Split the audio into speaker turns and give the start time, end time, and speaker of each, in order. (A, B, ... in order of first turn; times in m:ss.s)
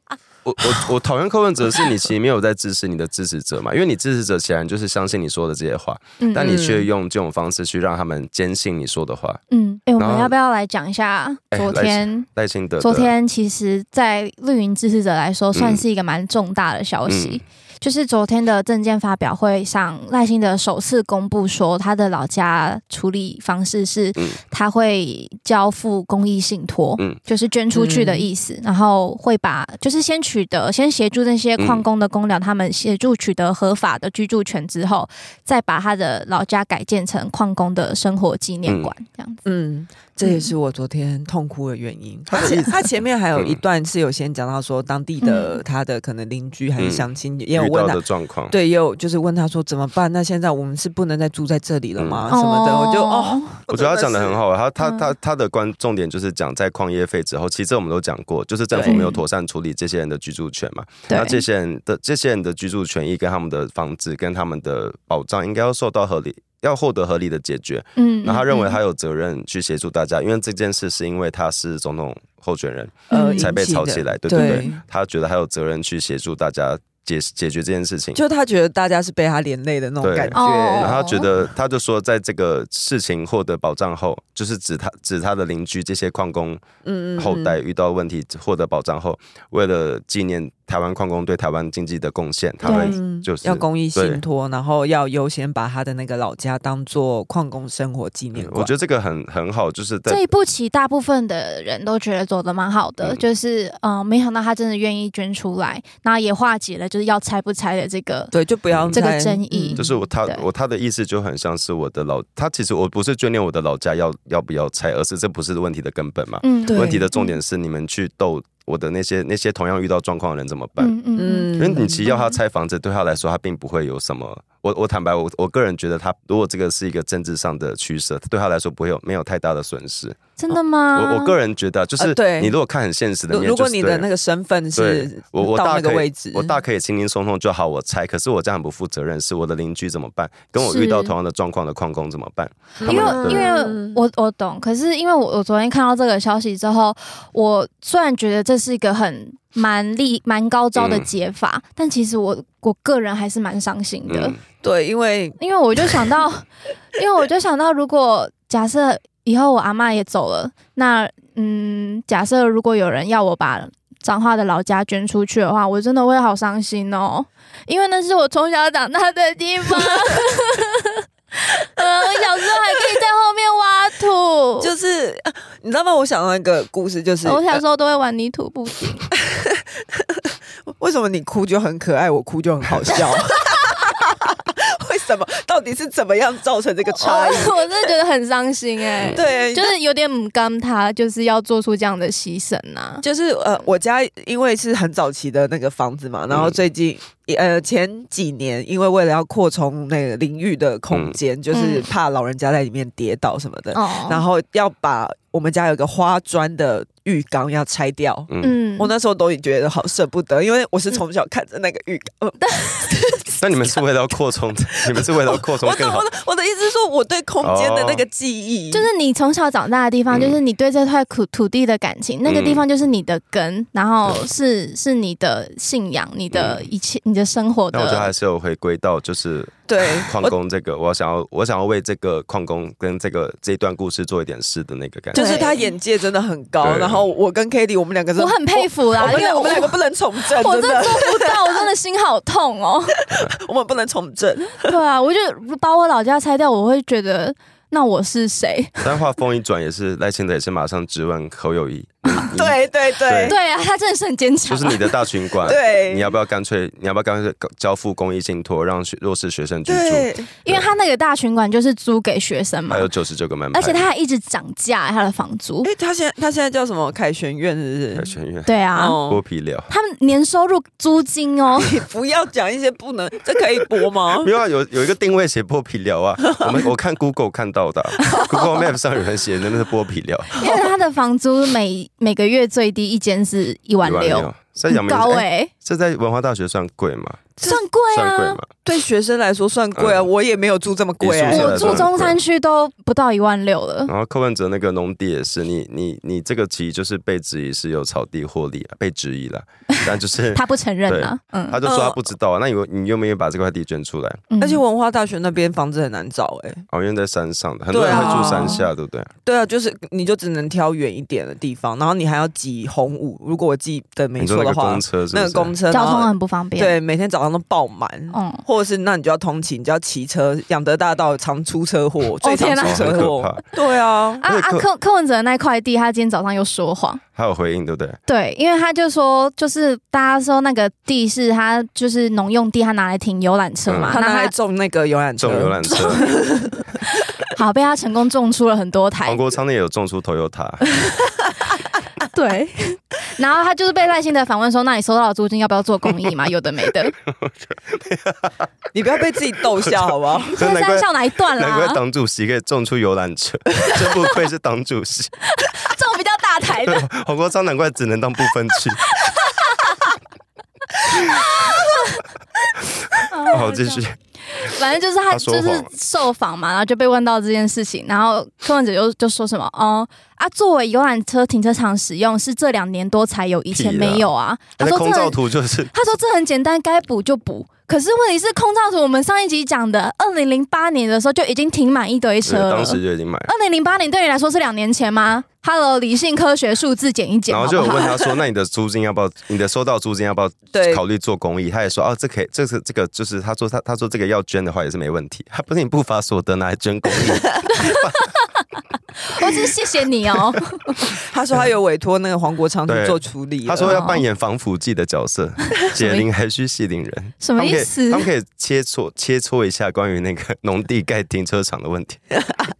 0:00.4-0:09.4 A
0:06.2-0:06.5 B
0:06.4-0:06.9 C
0:09.5-0:12.3 B
0:10.0-0:10.3 A
0:11.5-0:13.1 A
0:12.8-0:39.4 B
0:15.5-0:15.8 A
0:17.1-0:17.4 A
0:27.7-0:28.3 C
0:31.6-0:31.8 A
0:38.6-0:38.9 A
0:39.4-0:54.4 C
0:40.2-0:40.5 B
0:42.3-0:42.7 A
0:45.2-0:45.6 B
0:46.8-0:48.5 A
0:52.0-0:52.3 A
0:52.3-0:53.6 B
0:53.7-1:18.2 A
0:54.8-0:55.0 B
0:58.7-0:59.1 C
0:58.8-0:59.2 B
1:01.1-1:01.4 B
1:08.0-1:08.8 B
1:13.1-1:14.8 C
1:13.1-1:13.5 B
1:14.3-1:14.7 B
1:18.1-1:21.0 C
1:20.0-1:26.6 A
1:20.3-1:21.2 B
1:26.8-1:27.6 C
1:27.2-1:34.2 A
1:32.6-1:33.0 B
1:32.6-1:38.7 C
1:38.4-1:40.2 A
1:40.1-1:48.3 B
1:48.3-1:49.8 C
1:48.7-1:49.0 A
1:48.9-1:50.4 B
1:49.8-2:00.9 A
1:56.4-1:57.3 B
1:56.7-1:57.0 C
2:00.8-2:02.3 B
2:01.2-2:02.0 C
2:01.5-2:10.2 A
2:10.4-2:11.3 B
2:10.9-2:14.1 A
2:12.0-2:12.6 C
2:13.3-2:16.6 C
2:14.8-2:23.4 A
2:20.6-2:21.1 B
2:22.8-2:24.0 C
2:22.8-2:34.4 B
2:30.8-2:31.1 A
2:34.1-2:34.4 A
2:34.6-2:35.4 C
2:35.4-2:54.7 B
2:54.6-2:57.6 C
2:57.2-2:59.1 B
2:59.1-3:07.9 C
3:06.9-3:13.0 B
3:09.1-3:09.7 C
3:13.0-3:33.4 C
3:16.3-3:16.6 A
3:20.9-3:21.2 A
3:21.5-3:21.9 B
3:23.7-3:24.2 B
3:28.3-3:28.5 A
3:28.4-3:28.9 B
3:32.4-3:32.9 B
3:33.4-3:36.1 A
3:34.7-3:38.9 C
3:37.4-3:38.0 A
3:38.7-3:48.1 B
3:40.1-3:40.4 A
3:42.2-3:42.6 A
3:46.3-3:46.6 A
3:47.7-3:55.4 A
3:49.7-3:50.3 C
3:55.1-3:55.7 B
3:55.1-4:01.7 C
3:56.6-3:57.0 A
3:58.2-3:59.8 B
4:00.3-4:03.0 B
4:03.0-4:04.8 C
4:04.6-4:08.8 B
4:08.8-4:13.4 A
4:12.3-4:13.4 C
4:13.2-4:14.9 B
4:14.5-4:20.7 A
4:15.4-4:16.1 C
4:19.6-4:20.3 C
4:20.4-4:22.9 B
4:22.7-4:23.8 A
4:23.5-4:25.7 B
4:25.6-4:28.1 C
4:27.9-4:29.7 A
4:28.4-4:29.0 B
4:28.7-4:29.2 C
4:29.7-4:31.8 B
4:31.6-4:34.3 C
4:34.2-4:40.4 A
4:40.4-4:45.5 B
4:43.8-4:48.5 A
4:47.4-4:48.4 B
4:48.6-4:51.9 C
4:49.8-4:50.1 A
4:51.0-4:52.2 A
4:51.3-4:53.9 B
4:53.9-5:04.2 A
4:59.7-5:01.6 B
5:01.6-5:02.0 C
5:04.3-5:04.6 B
5:04.4-5:06.6 C
5:06.7-5:09.1 A
5:07.7-5:08.6 C
5:07.9-5:08.6 B
5:09.2-5:24.2 C
5:14.2-5:15.5 A
5:15.7-5:16.7 B
5:18.1-5:18.4 B
5:22.2-5:22.9 B
5:22.6-5:23.4 A
5:24.2-5:24.6 A
5:24.2-5:27.0 B
5:27.2-5:28.0 A
5:28.1-5:34.3 B
5:33.7-5:34.0 A
5:33.9-5:36.6 C
5:35.2-5:36.1 A
5:35.7-5:36.0 B
5:37.3-5:39.2 B
5:39.0-5:40.6 A
5:42.0-5:46.9 B
5:47.1-5:48.5 A
5:48.7-5:50.4 C
5:49.6-5:55.1 A
5:50.4-5:51.8 B
5:55.3-5:56.8 B
5:56.6-5:58.8 A
5:58.8-5:59.7 B
6:00.9-6:02.0 B
6:03.1-6:15.2 B
6:03.3-6:04.0 A
6:05.1-6:05.7 A
6:13.5-6:14.0 A
6:14.6-6:15.7 A
6:15.7-6:28.1 B
6:22.2-6:23.3 A
6:27.3-6:38.0 A
6:30.5-6:30.8 C
6:37.5-6:38.2 B
6:39.0-6:40.8 B
6:40.8-6:43.8 C
6:42.7-6:52.1 A
6:43.6-6:44.0 B
6:45.6-6:46.0 B
6:47.2-6:48.1 B